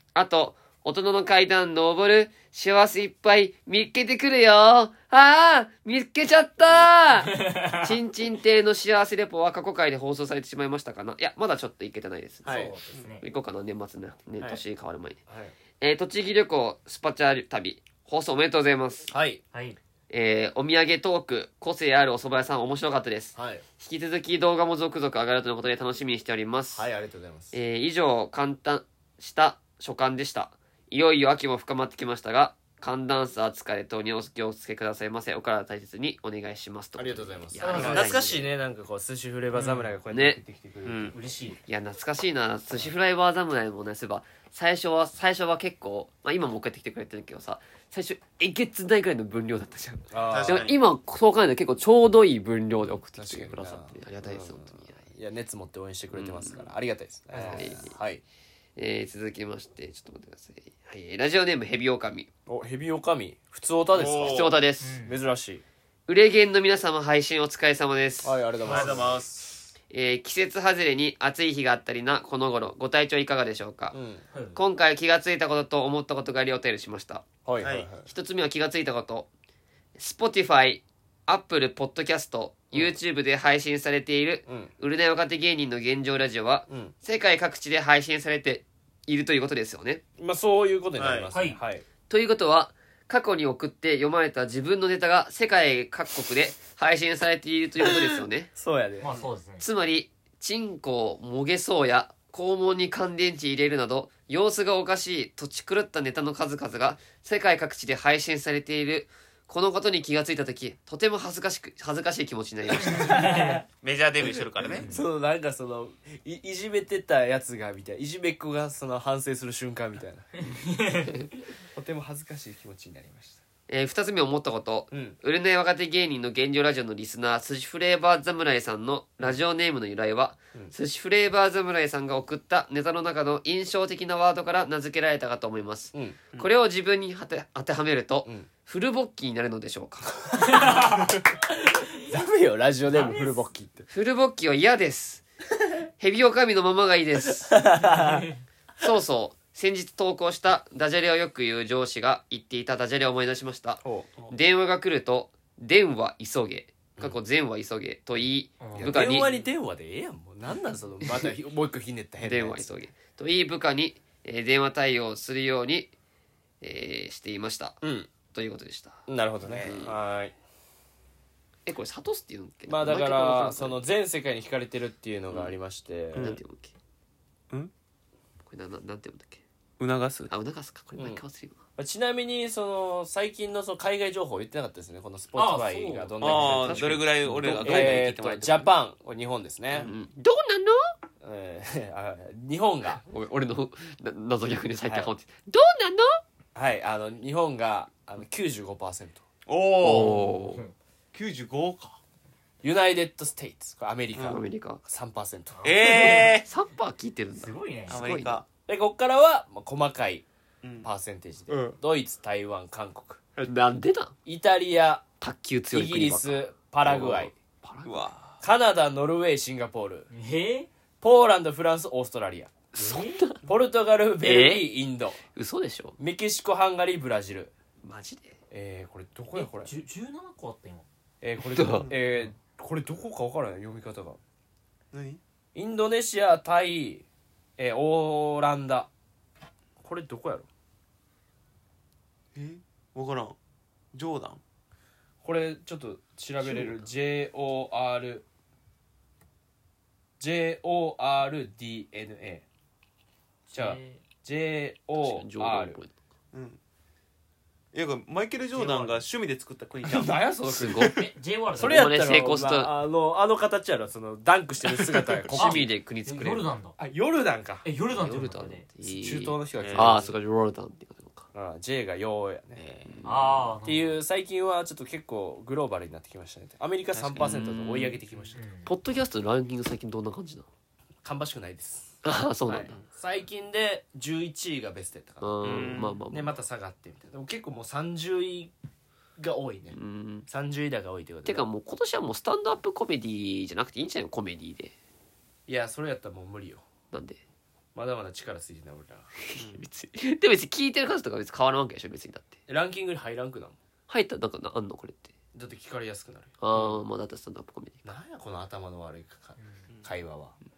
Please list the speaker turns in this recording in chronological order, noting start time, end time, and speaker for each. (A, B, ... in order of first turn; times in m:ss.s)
0:00.1-0:12.7 A
0:07.2-0:08.0 B
0:12.4-0:12.8 C
0:12.4-0:13.2 B
0:13.2-0:15.2 A
0:15.3-0:15.5 C
0:15.8-0:19.1 A
0:19.1-0:19.4 C
0:19.5-0:19.8 B
0:20.1-0:26.9 A
0:23.3-0:23.6 C
0:26.7-0:27.5 C
0:27.5-0:38.5 A
0:37.0-0:41.2 C
0:37.6-0:38.2 B
0:37.7-0:38.2 D
0:39.5-0:39.9 B
0:40.1-0:40.4 A
0:40.8-0:41.1 D
0:41.1-0:41.6 B
0:41.6-0:55.0 A
0:50.1-0:50.7 C
0:50.2-0:50.8 D
0:53.1-0:58.2 C
0:56.1-0:56.7 A
0:57.3-0:58.0 A
0:58.8-1:02.3 A
1:02.4-1:04.5 C
1:03.9-1:04.6 D
1:04.2-1:05.0 A
1:04.8-1:05.2 B
1:05.0-1:05.6 C
1:06.1-1:08.4 A
1:08.2-1:09.2 C
1:08.6-1:09.7 D
1:08.6-1:09.1 B
1:09.9-1:14.0 A
1:13.9-1:14.2 C
1:14.3-1:14.6 B
1:14.5-1:17.3 A
1:17.4-1:18.1 C
1:17.6-1:17.9 D
1:18.0-1:19.3 A
1:20.0-1:30.0 A
1:24.4-1:24.7 C
1:26.7-1:26.9 C
1:30.2-1:31.8 C
1:31.0-1:31.3 D
1:31.3-1:31.6 B
1:32.1-1:38.5 A
1:38.5-1:39.2 C
1:39.0-1:39.7 B
1:39.6-1:53.5 A
1:52.8-1:53.6 C
1:52.8-1:53.6 B
1:53.8-1:54.9 D
1:54.7-1:55.0 B
1:54.8-2:01.2 C
2:00.5-2:01.3 B
2:01.7-2:03.4 C
2:03.7-2:20.2 A
2:04.9-2:05.2 C
2:15.9-2:16.2 C
2:20.3-2:21.1 C
2:20.6-2:20.9 B
2:21.8-2:23.9 C
2:22.9-2:23.3 B
2:23.9-2:25.2 A
2:26.0-2:27.6 A
2:27.4-2:28.3 C
2:27.9-2:28.3 B
2:28.8-2:39.3 A
2:33.8-2:34.1 C
2:38.6-2:39.1 B
2:38.7-2:42.7 C
2:42.2-2:45.9 A
2:46.6-2:49.9 A
2:47.8-2:48.1 C
2:49.1-2:50.3 C
2:49.4-2:49.8 D
2:51.6-2:53.8 A
2:52.7-2:56.4 C
2:56.1-2:56.4 D
2:56.1-2:56.7 A
2:58.4-2:59.4 A
2:59.8-3:00.3 D
3:00.3-3:01.6 A
3:01.0-3:01.2 C
3:01.8-3:09.9 C
3:05.3-3:06.5 B
3:06.2-3:08.7 D
3:06.4-3:08.1 A
3:09.7-3:10.0 D
3:09.8-3:10.9 A
3:11.2-3:13.0 C
3:13.0-3:16.2 A
3:14.8-3:15.1 C
3:16.5-3:19.2 C
3:19.4-3:20.3 D
3:19.8-3:20.6 A
3:20.5-3:20.7 B
3:21.1-3:22.0 D
3:22.6-3:25.6 C
3:24.1-3:24.4 D
3:24.2-3:24.8 A
3:25.6-3:26.4 B
3:25.6-3:26.5 D
3:26.0-3:28.4 A
3:27.4-3:28.0 B
3:27.9-3:28.4 D
3:28.7-3:30.2 C
3:30.6-3:30.9 D
3:30.8-3:33.3 C
3:33.4-3:34.2 A
3:34.2-3:35.0 C
3:35.2-3:38.1 A
3:35.7-3:37.3 C
3:37.8-3:38.4 D
3:38.4-3:40.1 C
3:40.1-3:40.7 B
3:41.0-3:42.5 C
3:42.7-3:43.4 A
3:42.8-3:43.2 B
3:43.4-3:45.2 C
3:44.2-3:44.7 A
3:45.2-3:46.0 A
3:46.0-3:47.5 C
3:47.8-3:48.4 A
3:48.5-3:49.7 C
3:49.3-3:50.8 B
3:51.2-3:54.2 C
3:51.4-3:51.9 A
3:51.6-3:52.0 D
3:54.9-3:55.2 D
3:55.5-3:57.0 C
3:57.6-3:58.9 C
3:59.8-4:00.5 C
4:02.3-4:03.4 D
4:03.9-4:04.4 D
4:05.2-4:08.2 C
4:10.2-4:12.4 C
4:13.5-4:14.0 B
4:13.5-4:15.8 C
4:15.0-4:16.0 A
4:16.3-4:16.6 D
4:17.7-4:20.2 D
4:18.6-4:19.0 C
4:19.8-4:21.0 C
4:20.4-4:21.0 A
4:20.8-4:21.9 B
4:21.6-4:25.6 C
4:21.6-4:22.7 A
4:25.3-4:26.5 A
4:25.4-4:26.8 B
4:26.8-4:30.1 C
4:27.6-4:28.7 B
4:28.0-4:31.3 A
4:29.6-4:29.9 D
4:31.3-4:32.6 C
4:32.6-4:33.0 D
4:32.9-4:33.6 A
4:33.0-4:34.0 B
4:33.6-4:38.4 C
4:36.9-4:37.4 D
4:37.1-4:38.0 A
4:38.3-4:38.7 B
4:38.6-4:40.4 A
4:41.0-4:48.5 C
4:42.0-4:42.8 A
4:45.2-4:46.4 A
4:45.4-4:46.0 D
4:49.2-4:51.4 C
4:49.7-4:50.3 A
4:51.2-4:54.7 A
4:55.5-4:56.7 C
4:56.9-4:57.2 A
4:57.7-4:59.1 C
4:59.2-5:02.4 A
4:59.4-4:59.6 D
5:02.5-5:03.6 C
5:03.9-5:05.1 A
5:05.3-5:06.4 C
5:06.4-5:07.8 A
5:07.8-5:10.3 C
5:09.4-5:09.7 B